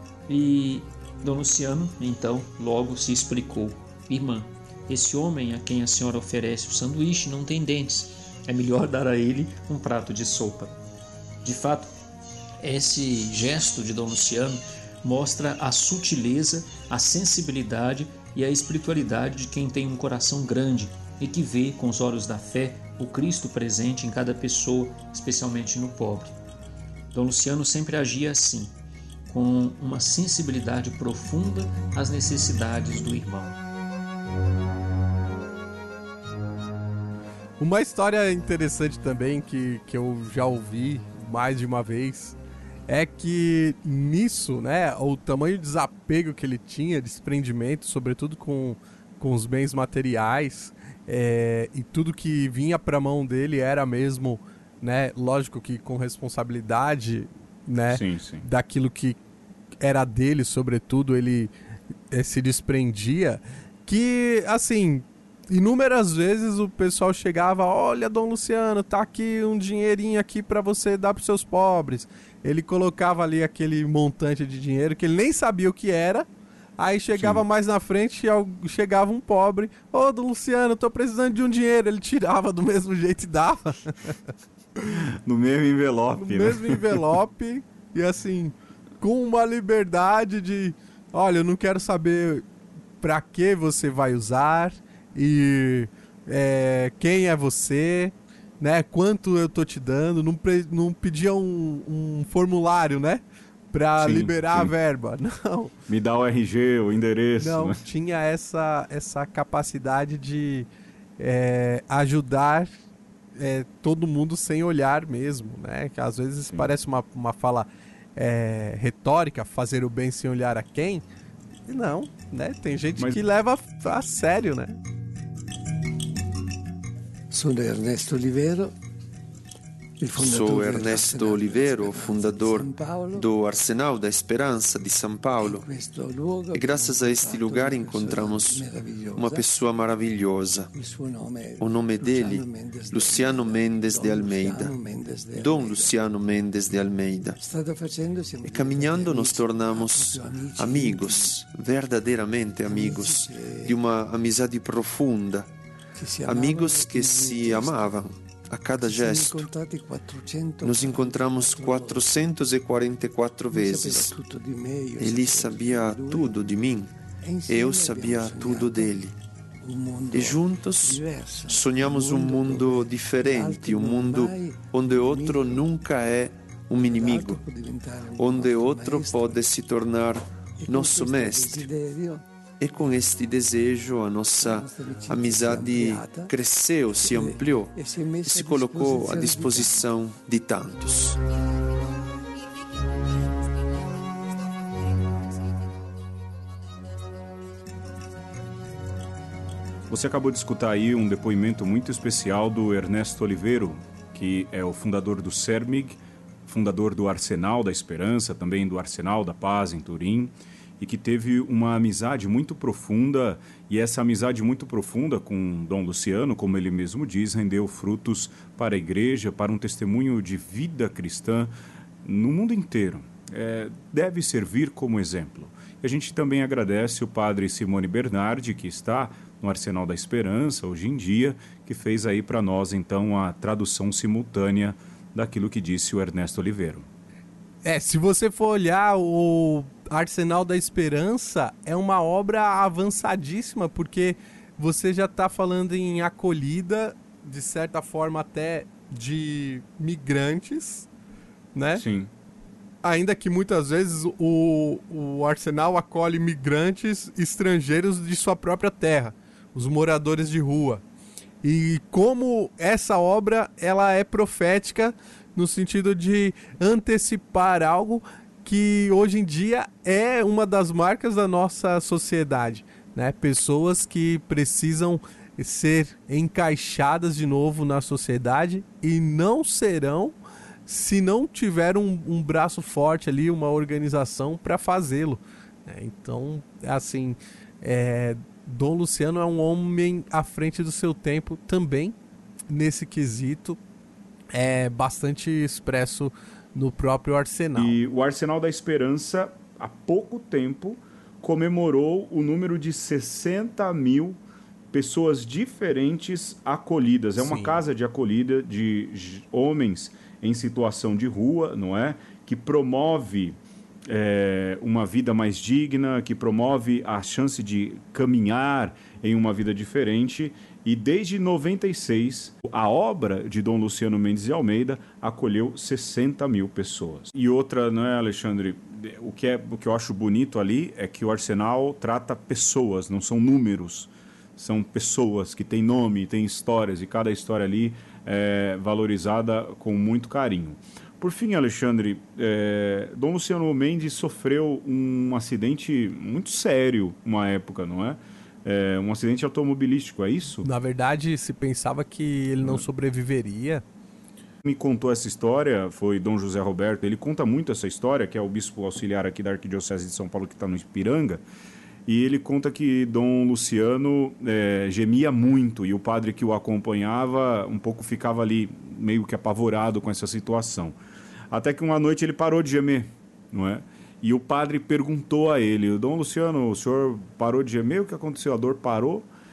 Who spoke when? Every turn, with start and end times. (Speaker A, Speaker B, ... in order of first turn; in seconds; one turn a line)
Speaker A: 0.3-10.7
Speaker A: 11.4-11.9
Speaker A: 12.6-26.4
Speaker A: 27.1-28.7
Speaker A: 29.3-33.6
Speaker B: 37.6-42.4
Speaker B: 42.9-59.2
Speaker C: 57.9-58.5
Speaker B: 59.8-61.5
Speaker B: 62.1-76.3
Speaker B: 76.8-84.1
Speaker C: 77.2-77.4
Speaker C: 85.0-87.0
Speaker B: 86.1-92.4
Speaker B: 93.0-105.7
Speaker C: 104.0-104.7
Speaker C: 105.9-107.8
Speaker B: 107.4-110.7
Speaker B: 111.2-112.7
Speaker B: 113.3-121.0
Speaker B: 121.7-124.8
Speaker D: 127.3-128.7
Speaker D: 130.0-133.3
Speaker E: 130.2-135.6
Speaker D: 135.4-139.5
Speaker E: 136.5-138.6
Speaker E: 139.2-140.7
Speaker D: 140.7-146.0
Speaker E: 141.6-144.7
Speaker E: 145.3-147.4
Speaker D: 147.4-151.3
Speaker E: 148.4-155.5
Speaker D: 152.6-153.8
Speaker D: 156.0-157.9
Speaker E: 156.2-159.5
Speaker D: 158.8-162.1
Speaker E: 160.6-164.1
Speaker D: 163.5-166.4
Speaker E: 165.0-166.9
Speaker D: 167.2-169.0
Speaker E: 167.5-169.1
Speaker D: 169.6-175.7
Speaker E: 170.1-177.4
Speaker D: 176.7-179.5
Speaker E: 178.2-181.7
Speaker D: 180.6-182.2
Speaker E: 182.6-187.7
Speaker D: 184.4-186.3
Speaker D: 186.9-189.8
Speaker E: 188.2-191.2
Speaker C: 199.9-221.5
Speaker C: 222.0-236.9
Speaker B: 237.6-250.9
Speaker B: 251.5-251.8
Speaker C: 251.7-252.1
Speaker B: 252.8-260.8
Speaker B: 261.4-280.1
Speaker B: 280.6-291.9
Speaker B: 292.5-293.6
Speaker B: 294.3-297.8
Speaker C: 297.5-304.2
Speaker C: 304.7-350.5
Speaker B: 307.2-307.6
Speaker B: 350.4-353.6
Speaker C: 352.4-352.6
Speaker C: 354.4-361.2
Speaker C: 361.9-370.8
Speaker C: 371.3-379.1